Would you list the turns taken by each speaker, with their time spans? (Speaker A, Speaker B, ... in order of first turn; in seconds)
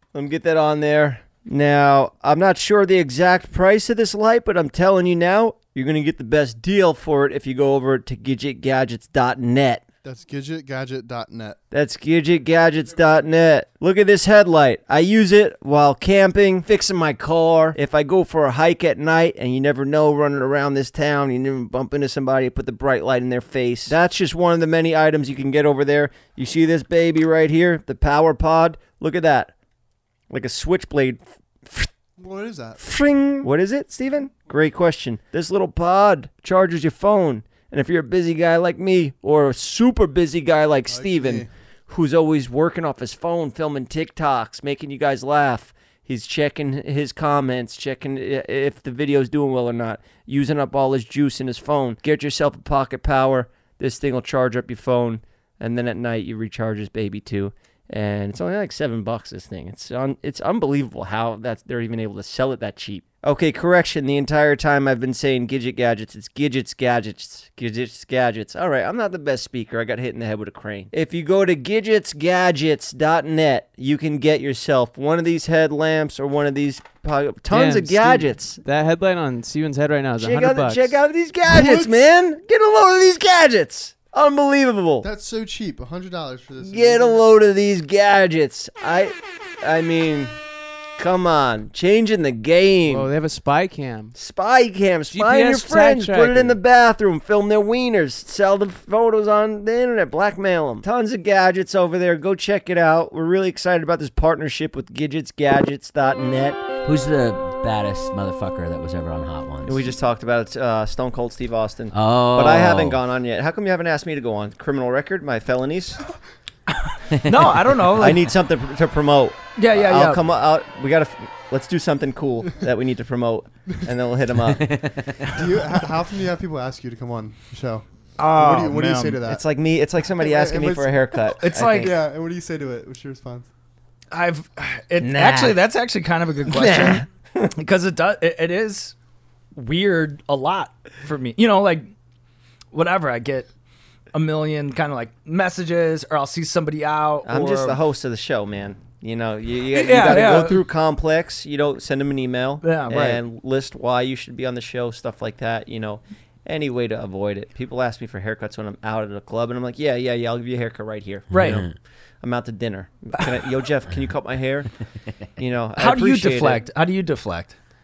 Speaker A: 0.1-9.8, 11.7-29.5, 30.3-31.9, 32.8-78.6, 80.2-85.1, 86.6-90.4, 91.0-93.1, 94.2-106.7, 109.7-116.0, 117.9-125.0, 129.2-132.0, 135.0-135.5, 136.5-137.5, 147.3-164.7, 165.4-166.6
Speaker B: 10.0-11.6, 32.2-33.0, 40.9-41.5, 81.5-82.0, 85.0-87.2, 125.3-129.4, 130.2-133.5
Speaker C: 77.5-80.9, 92.9-94.2, 95.1-96.6
Speaker D: 106.8-109.8, 111.9-113.0, 124.5-125.3, 161.3-161.7
Speaker E: 117.3-118.3, 119.6-120.2, 128.2-129.2, 131.4-131.9, 134.1-138.9, 139.6-141.9, 142.7-143.5, 144.1-147.8, 149.7-150.6, 152.6-153.2, 161.3-161.7, 165.8-167.6